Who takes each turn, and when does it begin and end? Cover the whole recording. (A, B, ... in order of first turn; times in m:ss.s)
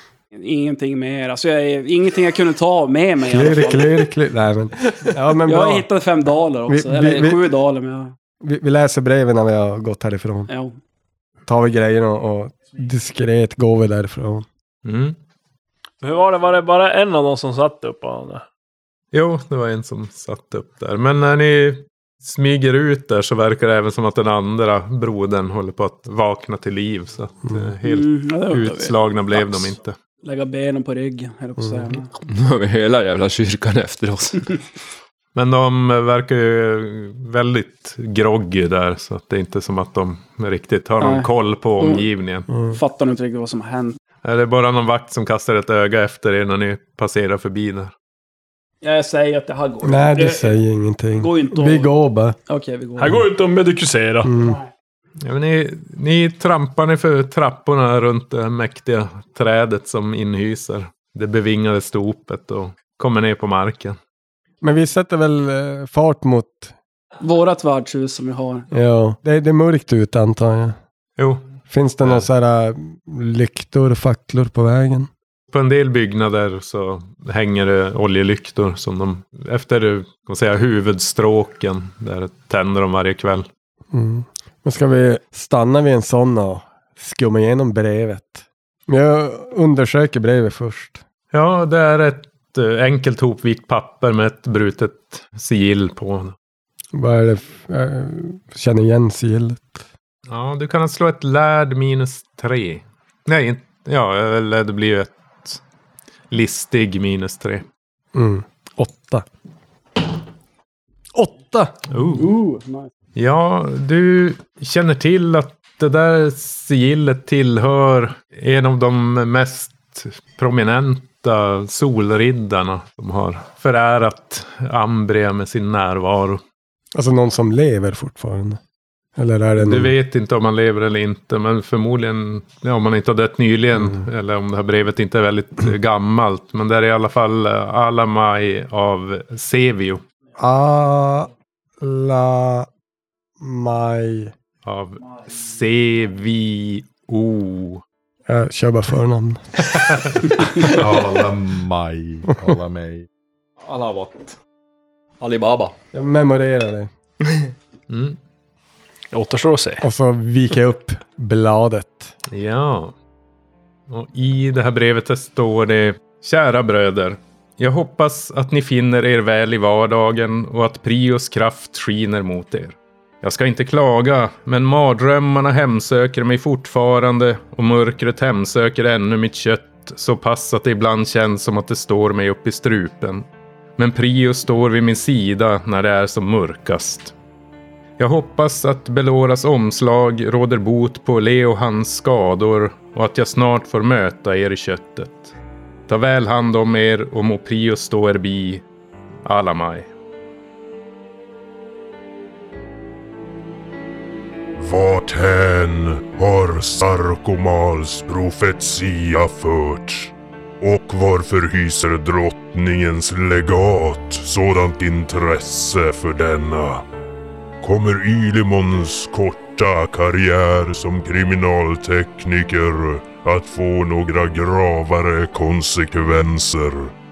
0:00.3-0:04.0 A
0:03.3-0:05.9 B
0:05.5-0:08.1 A
0:06.7-0:07.4 B
0:08.4-0:10.5 B
0:10.5-0:10.7 A
0:11.5-0:14.5 B
0:14.8-0:15.2 C
0:16.0-0:18.4 D
0:19.1-0:30.0 C
0:27.8-0:29.7 A
0:30.2-0:32.1 A
0:31.6-0:31.9 B
0:32.3-0:34.6 E
0:35.4-0:42.5 C
0:41.0-0:41.3 A
0:41.8-0:42.1 A
0:42.5-0:42.8 B
0:42.7-0:44.0 A
0:44.2-0:47.9 C
0:48.8-0:50.6 A
0:49.8-0:52.4 B
0:51.1-0:51.9 A
0:52.5-0:53.2 A
0:53.0-0:54.3 D
0:54.2-0:54.6 B
0:55.2-1:04.0 C
1:04.6-1:06.7 B
1:07.2-1:08.7 A
1:08.7-1:10.8 B
1:11.2-1:11.5 C
1:11.7-1:15.1 B
1:15.5-1:23.5 C
1:23.9-1:31.0 B
1:31.3-1:36.4 C
1:36.9-1:39.8 B
1:40.3-1:45.6 C
1:46.3-1:47.6 C
1:48.1-1:49.3 B
1:51.1-1:51.8 B
1:51.9-1:52.3 C
1:52.2-1:52.9 A
1:53.2-2:06.4 C
2:07.0-2:08.6 B
2:09.2-2:09.9 B
2:09.6-2:20.0 C
2:13.8-2:14.0 B
2:20.4-2:22.7 B
2:23.4-2:24.3 B
2:24.6-2:27.8 C
2:28.3-2:29.4 B
2:29.8-2:30.3 C
2:30.6-2:33.1 F
2:33.7-2:34.4 E
2:35.2-2:35.7 E
2:35.9-2:36.9 B
2:37.9-2:38.2 C
2:39.1-2:39.9 D
2:39.8-2:42.1 B
2:42.3-2:43.0 C
2:43.9-3:03.3 C
3:03.8-3:07.1 C
3:08.0-3:15.3 C
3:15.9-3:18.6 C
3:19.2-3:19.9 C
3:24.6-3:36.8 G
3:37.6-3:46.9 G